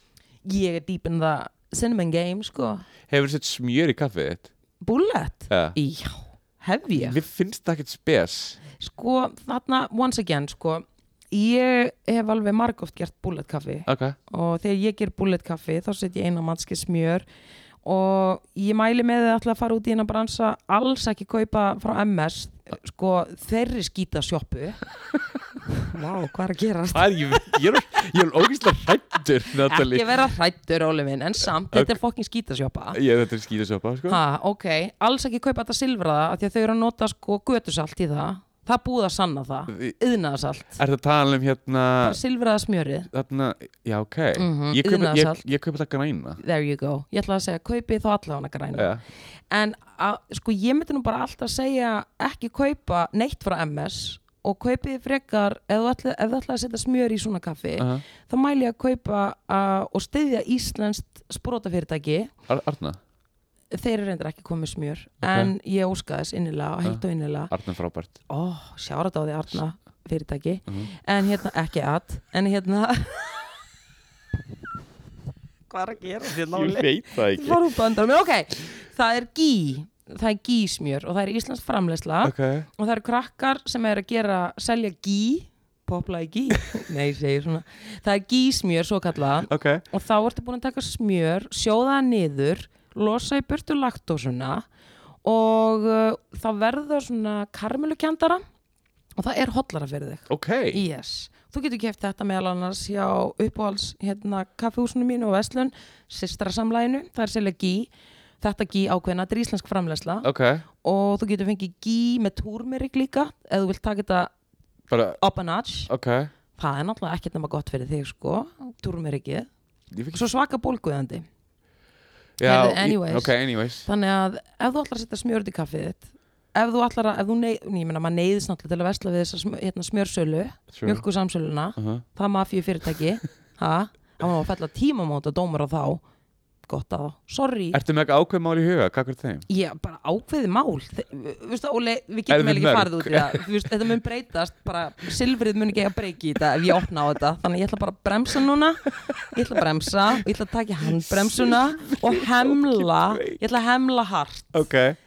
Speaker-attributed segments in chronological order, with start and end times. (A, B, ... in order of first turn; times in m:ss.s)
0:00.4-0:02.9 A
0:03.1-0:04.5 B
0:04.8-0:07.2 A
0:05.5-0:05.8 B
0:07.0-0:08.6 B
0:08.8-0:17.2 A
0:13.9-0:14.2 B
0:17.8-0:24.8 A
0:25.7-0:27.5 A
0:26.9-0:30.1 B
0:29.6-0:33.0 A
0:31.7-0:32.0 B
0:32.9-0:34.2 B
0:34.1-0:40.8 A
0:40.8-0:42.2 B
0:42.0-0:43.1 A
0:43.1-0:46.4 B
0:44.4-0:45.4 A
0:46.4-0:48.9 A
0:48.8-0:49.0 B
0:49.5-1:02.3 A
0:57.8-0:58.0 B
1:02.5-1:03.0 B
1:03.7-1:07.5 A
1:05.2-1:05.5 B
1:06.8-1:08.2 B
1:08.3-1:13.4 A
1:15.7-1:34.7 A
1:16.5-1:17.6 B
1:22.2-1:22.7 B
1:29.5-1:29.8 B
1:35.2-1:38.4 A
1:39.2-1:50.3 A
1:40.3-1:40.8 B
1:50.2-1:50.6 B
1:50.8-1:54.3 A
1:54.9-1:55.2 B
1:55.2-1:55.9 A
1:55.9-1:56.3 B
1:56.6-1:59.5 A
1:59.9-2:00.2 B
2:00.1-2:01.3 A
2:02.4-2:03.9 B
2:02.4-2:16.0 A
2:10.7-2:11.0 B
2:11.8-2:12.0 B
2:16.7-2:17.8 A
2:17.7-2:19.5 B
2:19.5-2:34.7 A
2:22.3-2:23.7 B
2:30.9-2:33.4 B
2:34.5-2:35.0 B